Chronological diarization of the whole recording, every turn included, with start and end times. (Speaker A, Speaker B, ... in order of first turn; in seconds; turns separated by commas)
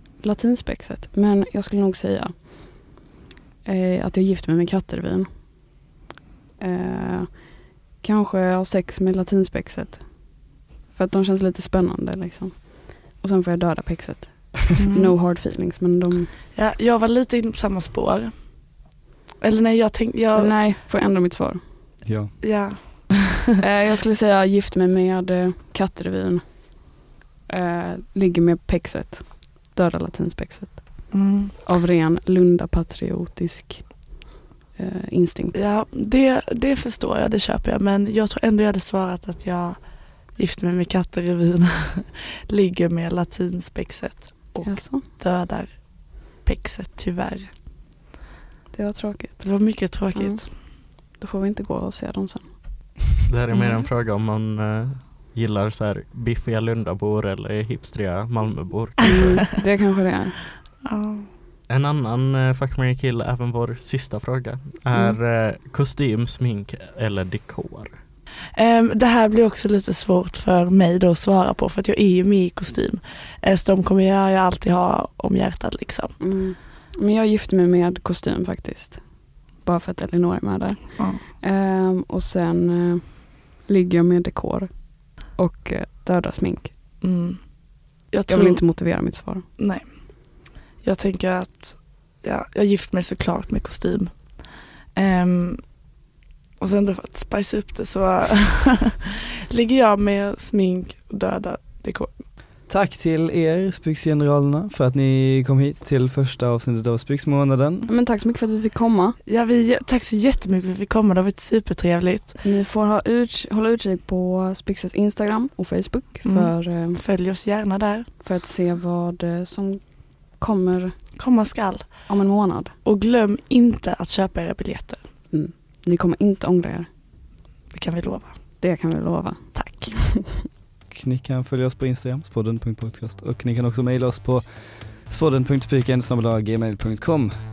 Speaker A: 0.2-2.9, Speaker A: 3.6-5.3, Speaker A: 6.6-7.5, Speaker A: 8.0-10.2, Speaker A: 10.9-16.3, Speaker B: 14.8-15.1, Speaker B: 16.5-18.3, Speaker B: 19.4-20.5, Speaker A: 20.4-21.6, Speaker C: 22.0-22.3, Speaker B: 22.4-23.1, Speaker A: 23.6-26.4, Speaker A: 27.5-31.1, Speaker B: 31.1-31.5, Speaker A: 31.6-34.2, Speaker A: 34.8-35.6, Speaker B: 35.5-39.8, Speaker B: 40.4-45.8, Speaker A: 44.6-45.1, Speaker B: 46.3-47.5, Speaker A: 48.7-50.4, Speaker B: 49.4-50.5, Speaker A: 51.2-52.5, Speaker D: 53.3-59.6, Speaker B: 53.5-53.8, Speaker A: 59.0-60.4, Speaker B: 60.8-61.3, Speaker D: 61.7-68.0, Speaker B: 68.6-76.2, Speaker A: 76.2-79.0, Speaker A: 79.6-84.7, Speaker A: 85.2-86.7, Speaker B: 87.0-87.4, Speaker B: 88.1-88.6, Speaker A: 88.3-89.5, Speaker B: 89.6-89.8, Speaker B: 90.8-94.1, Speaker B: 95.0-95.6, Speaker B: 96.6-102.1, Speaker C: 102.7-107.9, Speaker A: 107.9-109.2, Speaker B: 109.3-112.4, Speaker A: 112.4-117.0, Speaker B: 116.2-118.1, Speaker A: 118.2-119.8, Speaker A: 120.4-121.0, Speaker B: 121.2-122.0, Speaker A: 122.1-122.7, Speaker B: 122.8-125.0, Speaker A: 125.3-126.9, Speaker B: 127.7-128.3, Speaker A: 128.6-130.5, Speaker B: 129.6-129.9, Speaker C: 130.9-137.3